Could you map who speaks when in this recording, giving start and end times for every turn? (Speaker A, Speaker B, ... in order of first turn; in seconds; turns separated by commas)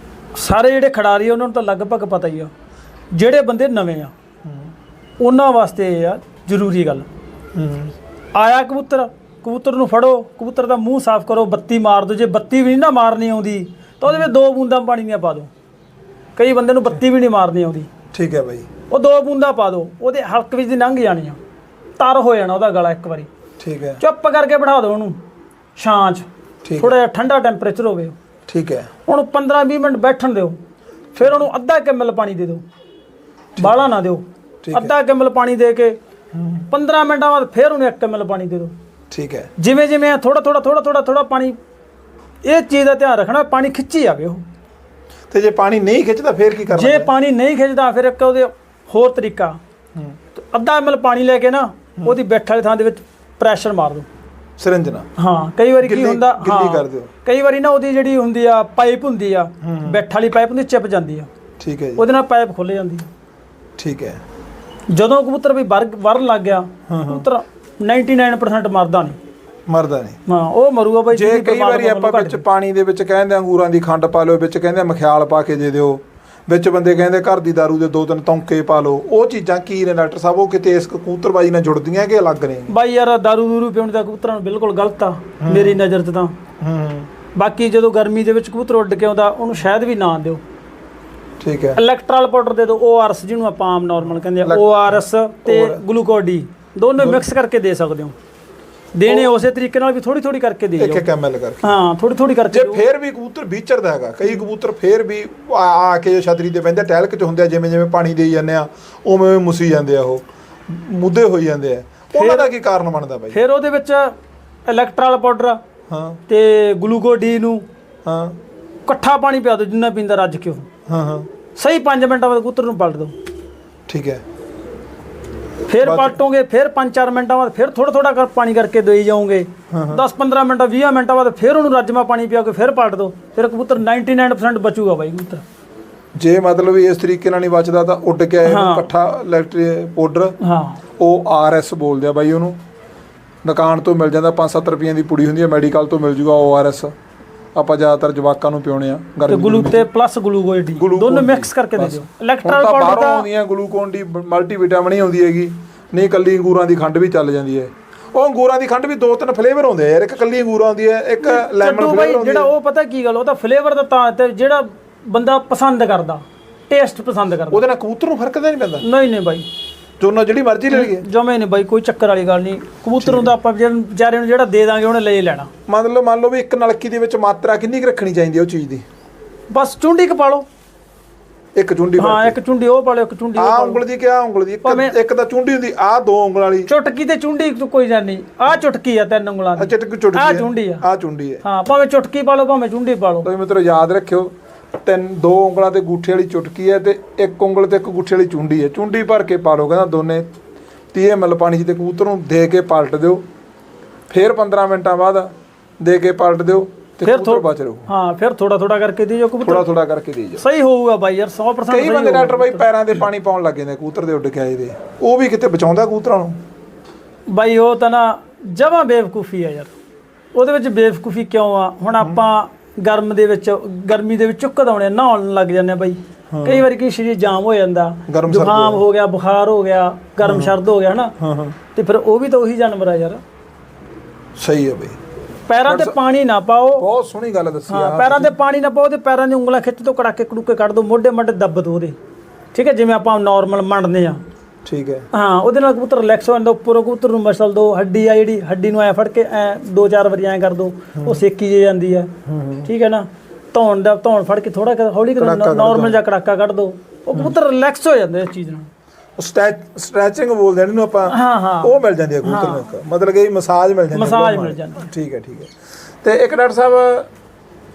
Speaker A: 0.3-2.5, Speaker A: 3.1-4.1, Speaker A: 5.2-7.1, Speaker B: 7.5-7.9, Speaker A: 8.3-15.5, Speaker A: 16.4-17.9, Speaker B: 18.1-18.7, Speaker A: 18.9-21.4, Speaker A: 22.0-23.3, Speaker B: 23.6-24.0, Speaker A: 24.0-25.2, Speaker A: 25.8-26.2, Speaker B: 26.6-27.0, Speaker A: 26.8-28.1, Speaker B: 28.5-28.9, Speaker A: 29.1-30.6, Speaker A: 31.1-32.6, Speaker B: 33.6-33.8, Speaker A: 33.6-36.0, Speaker B: 34.6-34.9, Speaker B: 36.3-36.6, Speaker A: 36.7-38.7, Speaker B: 39.1-39.5, Speaker A: 39.6-41.5, Speaker A: 42.4-44.4, Speaker B: 45.3-47.1, Speaker A: 46.7-49.6, Speaker A: 50.3-54.1, Speaker B: 54.6-55.1, Speaker A: 55.2-61.3, Speaker B: 55.8-57.1, Speaker B: 59.6-60.0, Speaker B: 61.6-62.1, Speaker A: 62.0-63.1, Speaker B: 63.8-64.2, Speaker A: 64.9-69.2, Speaker B: 66.9-67.2, Speaker B: 69.7-70.2, Speaker A: 70.2-72.4, Speaker B: 71.1-82.7, Speaker A: 82.7-86.3, Speaker B: 85.4-85.8, Speaker B: 86.6-87.1, Speaker A: 87.3-90.4, Speaker B: 91.4-91.8, Speaker A: 91.7-98.1, Speaker B: 94.4-94.9, Speaker B: 95.5-95.8, Speaker A: 98.9-101.0, Speaker B: 100.8-101.7, Speaker A: 101.6-102.8, Speaker B: 102.5-113.4, Speaker A: 112.2-112.5, Speaker A: 113.3-114.1, Speaker A: 114.7-115.6, Speaker B: 115.9-116.2, Speaker A: 116.3-117.6, Speaker B: 118.0-118.3, Speaker A: 118.9-120.7, Speaker B: 120.9-121.3, Speaker A: 121.5-123.1, Speaker B: 123.9-124.2, Speaker A: 125.7-135.4, Speaker B: 125.8-126.2, Speaker B: 129.7-130.0, Speaker B: 136.2-140.3, Speaker A: 138.4-138.9, Speaker A: 140.4-140.8, Speaker B: 141.0-142.6, Speaker B: 143.4-146.9, Speaker B: 147.5-149.9, Speaker A: 149.3-153.2, Speaker B: 150.8-162.5, Speaker A: 161.2-167.6, Speaker B: 167.5-168.8, Speaker A: 168.8-169.5, Speaker B: 170.0-171.0, Speaker A: 170.7-175.5, Speaker B: 173.0-173.3, Speaker B: 175.7-178.8, Speaker A: 179.5-180.4, Speaker B: 181.6-182.4, Speaker A: 182.0-183.8, Speaker B: 183.4-186.7, Speaker A: 184.6-184.9, Speaker A: 186.7-190.8, Speaker B: 189.6-191.4, Speaker A: 191.4-193.3, Speaker B: 193.2-194.3, Speaker B: 194.8-200.3, Speaker B: 200.9-203.2, Speaker B: 204.1-207.9, Speaker A: 207.0-209.7, Speaker B: 209.4-210.4, Speaker A: 210.4-212.8, Speaker B: 211.7-216.4, Speaker A: 217.3-219.7, Speaker A: 220.3-231.1, Speaker B: 226.3-226.6, Speaker B: 228.1-228.8, Speaker B: 230.2-230.5, Speaker B: 231.2-231.6, Speaker A: 231.7-233.2, Speaker B: 234.4-235.0, Speaker A: 235.5-236.8, Speaker B: 235.6-235.9, Speaker B: 236.8-238.3, Speaker A: 237.7-241.9, Speaker A: 242.5-244.2, Speaker B: 244.7-245.1, Speaker A: 245.1-252.1, Speaker B: 252.3-252.7, Speaker A: 252.6-258.7, Speaker B: 255.2-256.0, Speaker B: 259.2-265.5, Speaker A: 261.1-262.7, Speaker A: 263.9-264.9, Speaker B: 266.0-267.1